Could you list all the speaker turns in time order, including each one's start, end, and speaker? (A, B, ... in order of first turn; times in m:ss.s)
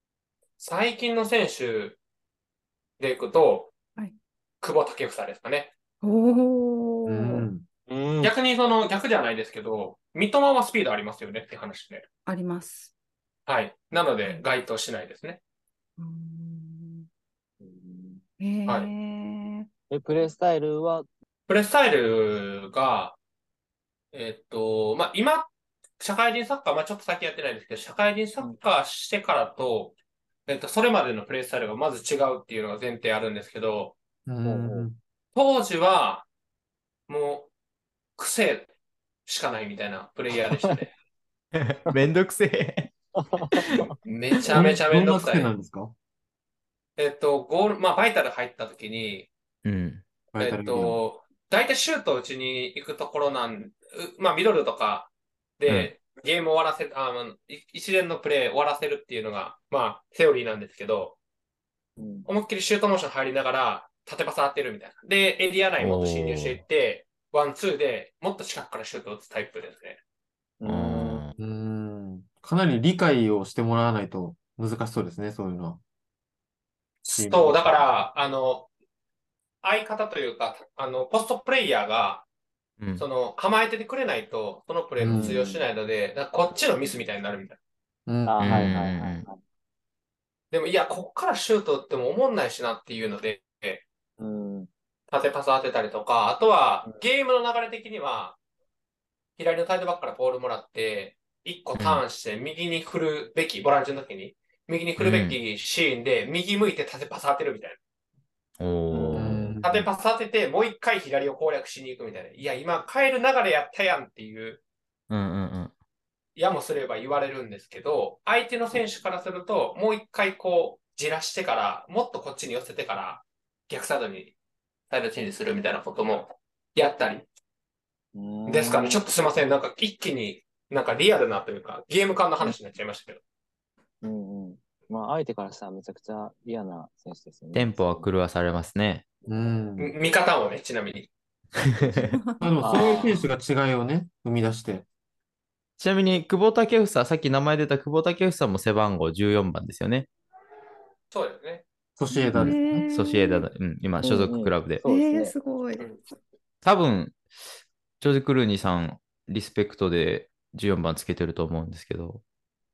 0:00.6-0:02.0 A
0:03.0-0:03.7 A
0:04.6-0:05.7 A
0:06.0-0:07.5 B
0:07.0-0:07.6 C
0:07.9-0:08.3 D
0:08.2-0:12.0 A
0:12.2-0:12.9 B
0:13.5-0:15.4 A
0:16.0-0:17.0 B
0:17.6-0:18.2 D
0:18.4-0:19.7 B
0:19.9-0:21.1 D
0:21.5-0:23.2 A
0:24.1-0:29.9 A
0:30.5-0:34.0 A
0:34.2-0:35.0 C
0:34.4-0:34.9 D
0:35.4-0:36.2 A
0:37.1-0:37.5 A
0:38.2-0:38.7 A
0:39.2-0:40.9 A
0:41.5-0:43.9 E
0:43.3-0:43.9 D
0:44.0-0:45.5 A
0:44.5-0:45.9 C
0:47.0-0:49.3 A
0:49.6-0:50.0 E
0:50.3-0:51.0 C
0:50.4-1:01.2 A
0:55.6-0:55.9 E
1:02.0-1:02.3 D
1:02.3-1:10.0 A
1:05.8-1:06.6 E
1:10.6-1:11.2 D
1:10.6-1:11.3 E
1:11.4-1:15.8 C
1:17.0-1:18.7 A
1:17.2-1:17.8 C
1:19.6-1:22.2 A
1:22.8-1:23.0 E
1:23.0-1:27.6 A
1:25.0-1:25.4 C
1:25.1-1:25.6 D
1:28.1-1:28.8 C
1:28.2-1:29.4 D
1:28.4-1:29.2 E
1:30.5-1:33.8 A
1:34.2-1:34.7 D
1:35.1-1:38.4 A
1:39.4-1:47.8 A
1:41.8-1:42.0 E
1:45.0-1:45.4 E
1:48.6-1:49.6 E
1:48.9-1:49.5 D
1:49.1-1:49.9 C
1:49.6-1:54.6 A
1:55.1-1:55.7 E
1:56.4-2:04.3 A
2:04.9-2:07.3 A
2:08.1-2:09.0 D
2:08.5-2:13.2 A
2:14.0-2:18.1 D
2:17.5-2:19.0 E
2:19.3-2:19.9 C
2:19.8-2:21.1 A
2:21.6-2:22.2 E
2:21.9-2:22.5 B
2:22.4-2:24.8 C
2:22.6-2:23.2 D
2:25.8-2:30.1 E
2:31.1-2:31.6 A
2:32.0-2:32.9 C
2:32.1-2:33.5 B
2:32.3-2:34.8 E
2:34.0-2:35.4 D
2:34.8-2:35.9 B
2:36.6-2:37.2 E
2:38.0-2:42.2 E